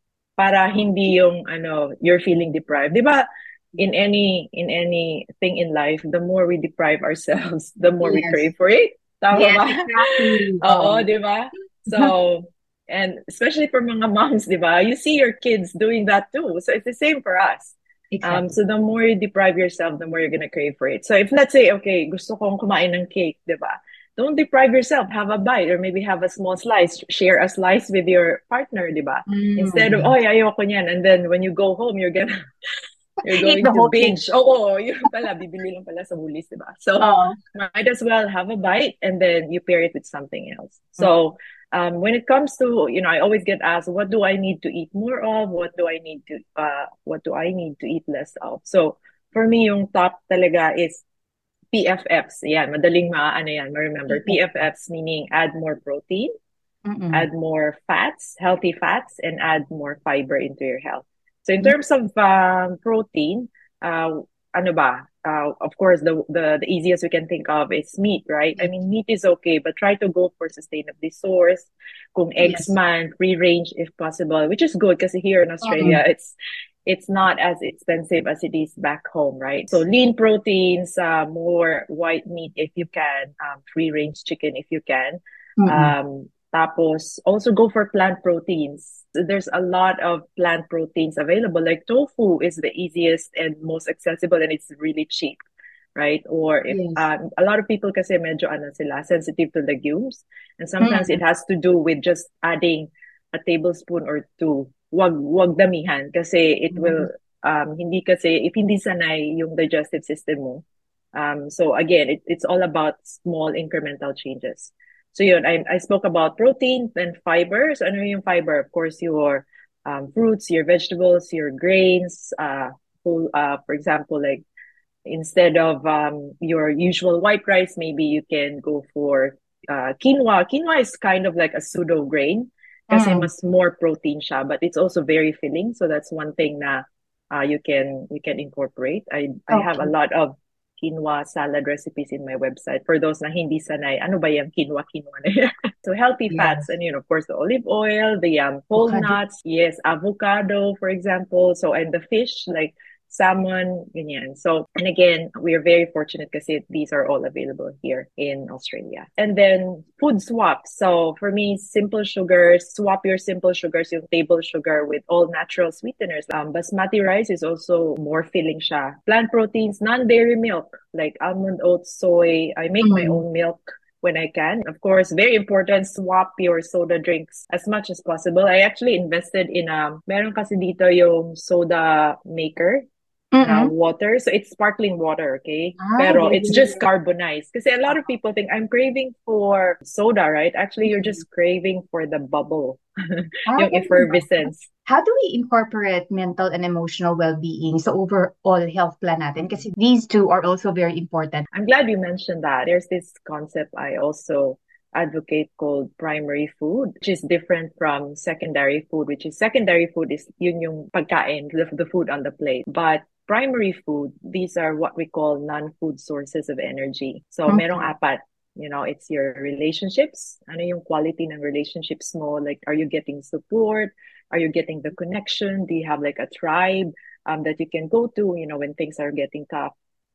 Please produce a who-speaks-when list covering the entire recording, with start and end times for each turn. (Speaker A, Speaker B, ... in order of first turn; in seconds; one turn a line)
Speaker A: 0.4-32.4
Speaker B: 8.0-8.5
Speaker B: 9.3-11.1
Speaker B: 18.1-18.5
Speaker B: 29.3-30.1
Speaker B: 33.2-34.2
Speaker A: 33.2-51.0
Speaker B: 37.0-37.4
Speaker A: 51.7-56.3
Speaker B: 54.1-54.4
Speaker B: 56.9-57.3
Speaker A: 57.1-95.4
Speaker B: 72.4-72.7
Speaker B: 75.6-76.0
Speaker B: 85.6-85.9
Speaker A: 96.0-110.6
Speaker B: 96.7-97.1
Speaker B: 100.8-101.2
Speaker B: 106.7-107.1
Speaker A: 111.2-124.5
Speaker A: 125.1-182.8
Speaker B: 132.9-133.3
Speaker B: 139.5-139.9
Speaker B: 146.3-146.7
Speaker B: 148.8-149.2
Speaker B: 172.8-173.2
Speaker B: 183.3-183.7
Speaker A: 183.4-194.7
Speaker B: 185.8-186.8
Speaker B: 190.8-191.2
Speaker B: 193.5-201.5
Speaker A: 201.5-229.7
Speaker B: 217.5-217.9